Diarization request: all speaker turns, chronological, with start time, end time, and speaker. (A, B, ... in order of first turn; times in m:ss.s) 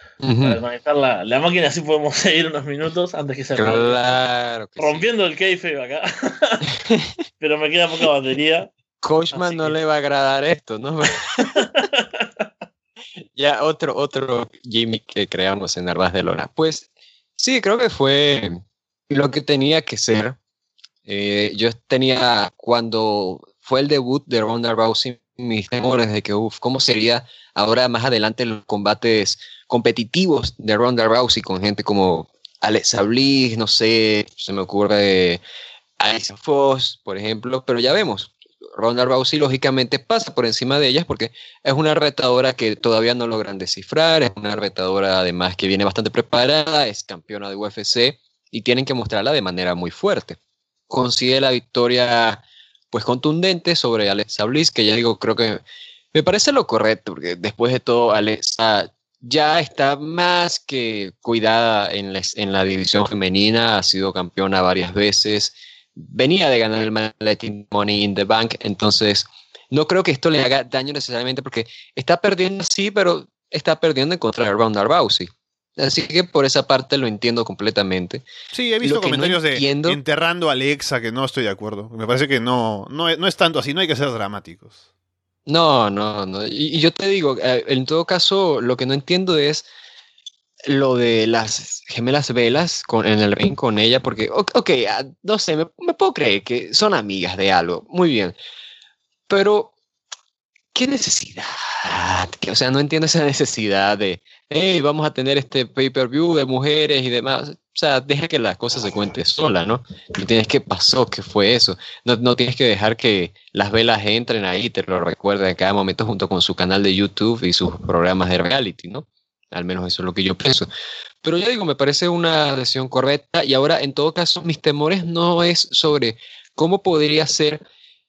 0:00.2-0:00.6 A
0:00.4-0:04.2 B
0:03.6-0:05.0 A
0:04.8-0:06.7 B
0:06.8-0:07.1 A
0:07.4-0:08.7 B
0:09.0-0:11.7 A
0:09.3-0:09.8 B
0:11.4-0:12.3 B
0:13.4-0:16.9 A
0:17.4-0:20.4 A
0:21.1-0:35.4 A
0:36.0-0:50.4 A
0:50.9-0:55.6 A
0:56.1-1:18.2 A
1:18.5-1:24.7 C
1:18.8-1:20.0 A
1:25.5-1:29.6 A
1:30.7-1:38.4 A
1:39.3-1:39.7 A
1:40.7-2:00.7 A
2:01.2-2:07.6 A